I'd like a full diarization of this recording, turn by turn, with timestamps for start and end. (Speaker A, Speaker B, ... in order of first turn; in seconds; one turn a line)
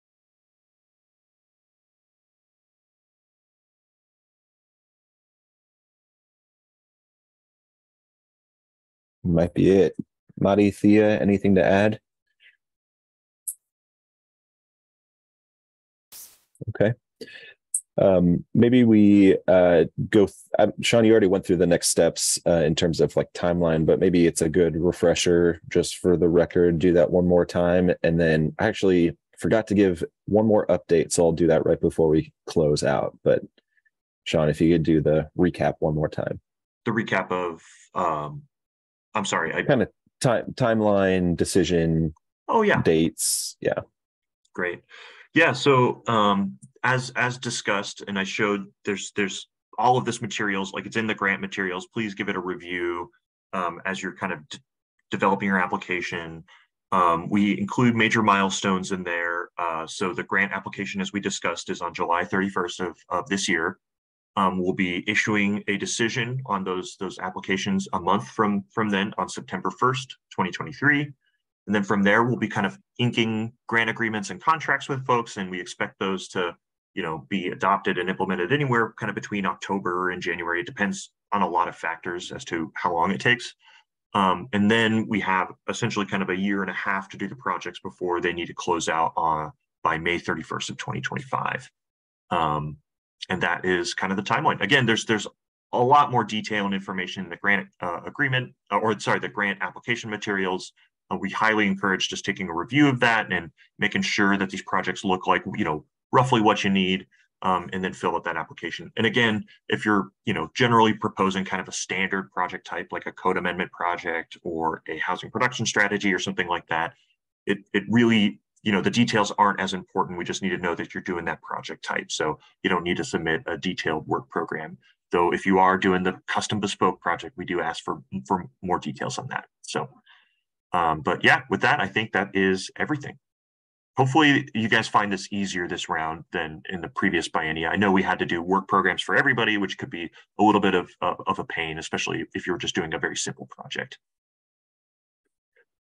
Speaker A: 9.2-12.0
Speaker A: 16.7-17.0
Speaker A: 18.0-33.4
Speaker A: 34.3-36.4
Speaker B: 36.9-38.5
Speaker B: 39.1-39.7
Speaker A: 39.7-42.1
Speaker B: 42.5-42.9
Speaker A: 42.8-43.8
Speaker B: 44.5-54.6
Speaker B: 55.1-63.8
Speaker B: 64.4-71.2
Speaker B: 71.7-83.5
Speaker B: 84.1-91.7
Speaker B: 92.3-92.8
Speaker B: 93.3-117.0
Speaker B: 117.5-129.9
Speaker B: 130.7-133.2
Speaker B: 134.0-144.0